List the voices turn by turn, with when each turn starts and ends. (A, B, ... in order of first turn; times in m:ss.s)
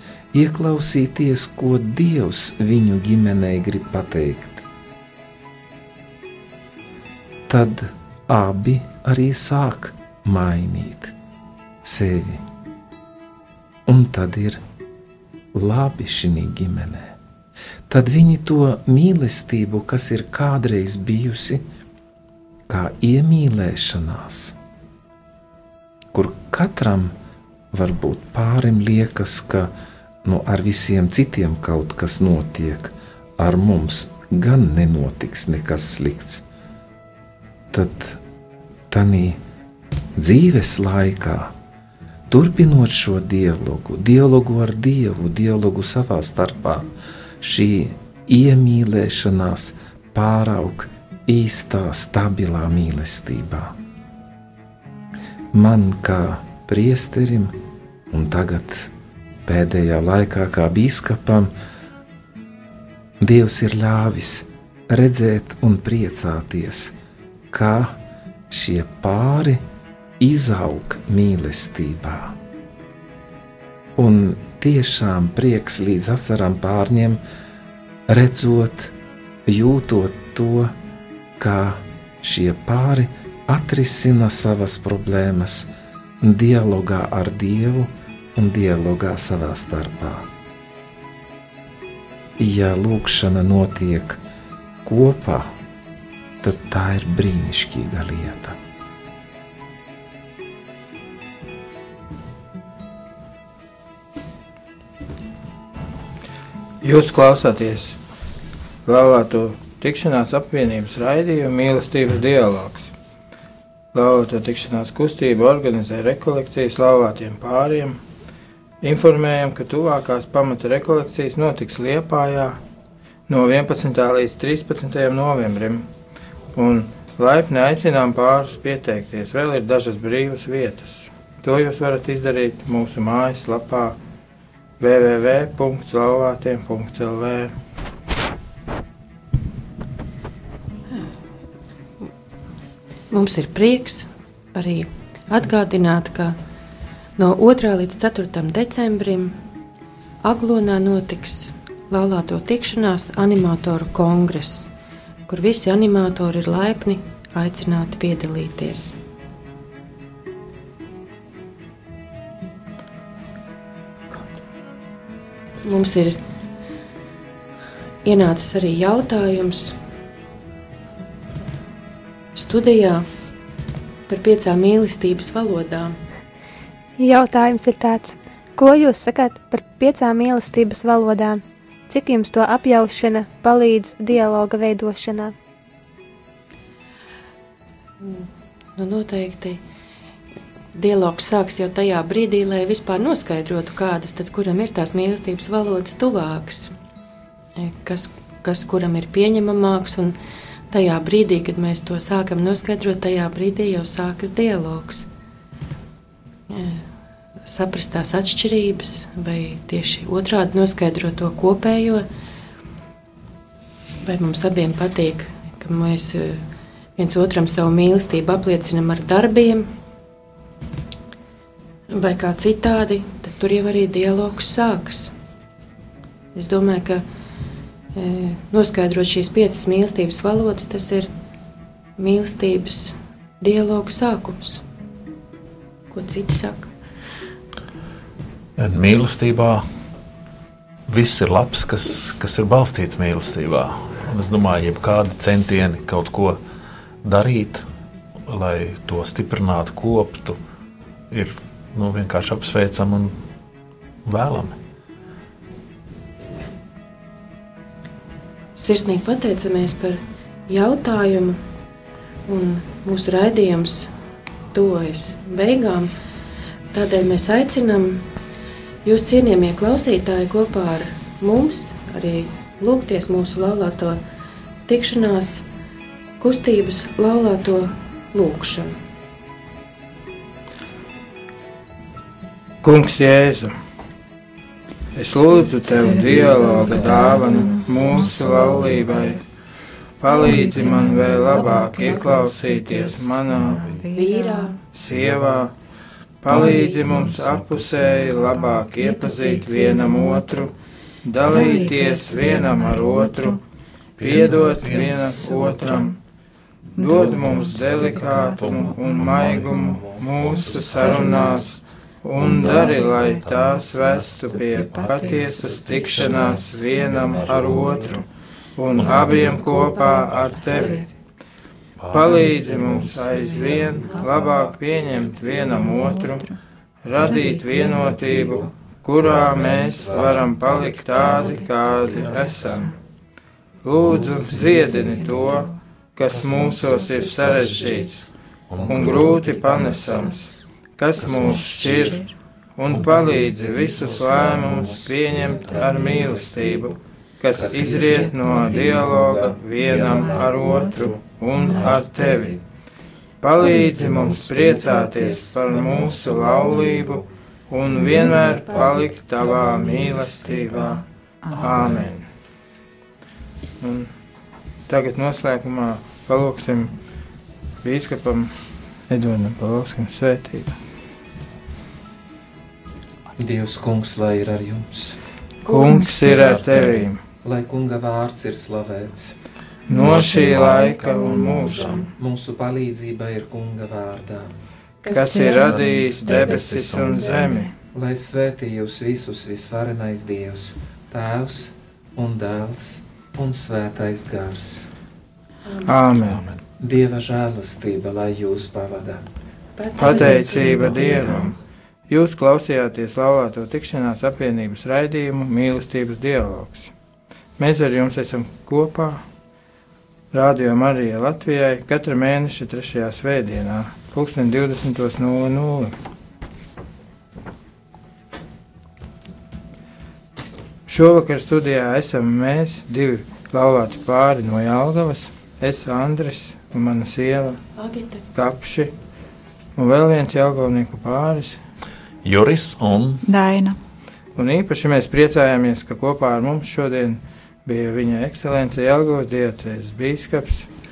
0:00.3-0:04.7 A
0:07.5-0:11.1 A
0:11.8-0:12.4 A
0:13.9-0:14.6 A
0:15.5-0:17.1 A
0:17.9-0:21.6 A
0:22.7-0:24.6 A
0:26.1-0:27.1 A
0:27.7-0:29.7 A
0:30.2-0:36.4 A
0:37.7-0:38.2 A
0:38.9-0:39.4 A
0:40.2-0:41.5 A
0:42.3-0:46.9 A
0:47.4-0:53.7 A
0:55.5-0:57.5 A
0:58.1-0:58.9 A
0:59.4-1:01.5 A
1:03.2-1:06.9 A
1:07.5-1:08.0 A
1:08.5-1:09.6 A
1:10.2-1:12.4 A
1:14.0-1:17.2 A
1:18.1-1:18.9 A
1:19.5-1:20.7 A
1:21.4-1:25.7 A
1:26.2-1:30.3 A
1:32.4-1:34.2 A
1:34.8-1:35.5 A
1:36.4-1:38.6 A
1:46.8-1:48.0 B
1:48.8-1:52.9 B
1:53.9-1:58.0 B
1:58.8-2:02.6 B
2:03.3-2:05.8 B
2:06.5-2:14.0 B
2:14.8-2:17.5 B
2:23.1-2:26.4 C
2:27.2-2:29.4 C
2:30.2-2:34.7 C
2:35.3-2:39.0 C
2:45.6-2:46.2 C
2:48.0-2:49.8 C
2:52.3-2:53.0 C
2:54.1-2:56.0 C
2:57.0-3:05.3 D
3:08.0-3:09.6 C
3:10.7-3:16.7 C
3:17.6-3:20.2 C
3:20.7-3:25.1 C
3:26.5-3:26.8 C
3:27.4-3:32.0 C
3:34.0-3:36.4 C
3:37.0-3:39.7 C
3:41.9-3:45.1 C
3:46.3-3:47.0 C
3:47.9-3:51.1 C
3:52.0-3:54.6 C
3:55.9-3:56.7 C
3:58.6-3:59.6 E
4:00.9-4:06.4 E
4:07.0-4:07.6 E
4:08.3-4:10.4 E
4:11.1-4:13.2 E
4:14.0-4:14.6 E
4:18.6-4:21.4 C
4:22.3-4:23.9 C
4:24.5-4:25.9 C
4:26.7-4:28.0 C
4:28.8-4:34.0 C
4:34.7-4:35.4 C
4:36.2-4:38.8 C
4:42.6-4:43.5 B
4:44.9-4:49.2 B
4:45.4-4:49.2 F
4:50.0-4:53.6 B
4:50.0-4:54.6 F
4:53.9-4:54.6 C
4:54.7-4:55.5 B
4:54.8-4:55.3 E
4:56.2-5:00.5 B
4:56.3-4:58.2 E
4:56.3-4:56.7 F
4:58.2-4:58.6 F
4:58.8-5:00.1 C
4:59.6-5:00.1 F
5:01.0-5:03.4 B
5:01.2-5:03.4 F
5:04.0-5:05.4 E
5:04.0-5:06.0 B
5:04.0-5:05.9 F
5:06.8-5:09.8 F
5:06.8-5:11.5 B
5:06.9-5:11.6 E
5:10.4-5:11.5 F
5:12.0-5:18.0 B
5:12.2-5:17.9 F
5:12.2-5:13.7 E
5:14.6-5:17.9 E
5:18.6-5:20.8 B
5:18.8-5:20.8 E
5:18.8-5:20.9 F
5:21.8-5:25.6 E
5:21.9-5:26.2 B
5:22.0-5:22.3 F
5:23.0-5:24.4 F
5:25.5-5:26.4 F
5:26.8-5:32.7 B
5:26.9-5:28.4 F
5:28.1-5:28.4 A
5:29.1-5:30.2 E
5:29.1-5:30.4 A
5:30.9-5:31.4 F
5:31.8-5:32.1 A
5:31.8-5:32.5 E
5:32.0-5:32.7 F
5:33.6-5:38.1 B
5:34.2-5:35.6 F
5:34.7-5:35.1 A
5:37.0-5:37.9 A
5:38.5-5:39.3 E
5:38.6-5:40.0 A
5:38.6-5:42.0 B
5:41.0-5:42.1 F
5:41.4-5:41.7 E
5:42.6-5:52.4 B
5:42.7-5:46.7 A
5:43.0-5:43.5 E
5:47.3-5:50.9 A
5:49.6-5:52.3 F
5:53.2-6:00.8 B
5:53.6-5:57.0 A
5:54.4-5:55.7 F
5:58.2-5:58.8 C
5:59.3-6:01.8 F
6:01.3-6:02.0 B
6:03.6-6:03.9 B
6:04.7-6:06.7 B
6:07.6-6:08.3 B
6:08.9-6:10.6 B
6:13.2-6:15.0 A
6:15.4-6:17.0 B
6:15.5-6:16.3 F
6:15.9-6:16.8 E
6:16.0-6:19.2 A
6:19.7-6:21.8 B
6:19.7-6:21.7 F
6:19.7-6:24.4 A
6:19.9-6:20.3 E
6:24.9-6:27.5 B
6:24.9-6:27.5 F
6:25.2-6:27.2 E
6:27.7-6:34.7 A
6:35.6-6:36.2 B
6:36.0-6:36.4 E
6:36.6-6:39.0 A
6:39.6-6:41.2 C
6:39.8-6:41.3 B
6:39.8-6:41.3 F
6:41.9-6:46.7 B
6:47.4-6:49.0 B
6:50.1-6:55.8 B
7:00.7-7:07.4 B
7:07.6-7:08.0 C
7:08.1-7:08.7 B
7:09.6-7:11.4 B
7:12.0-7:13.0 E
7:13.0-7:13.6 F
7:14.2-7:20.5 B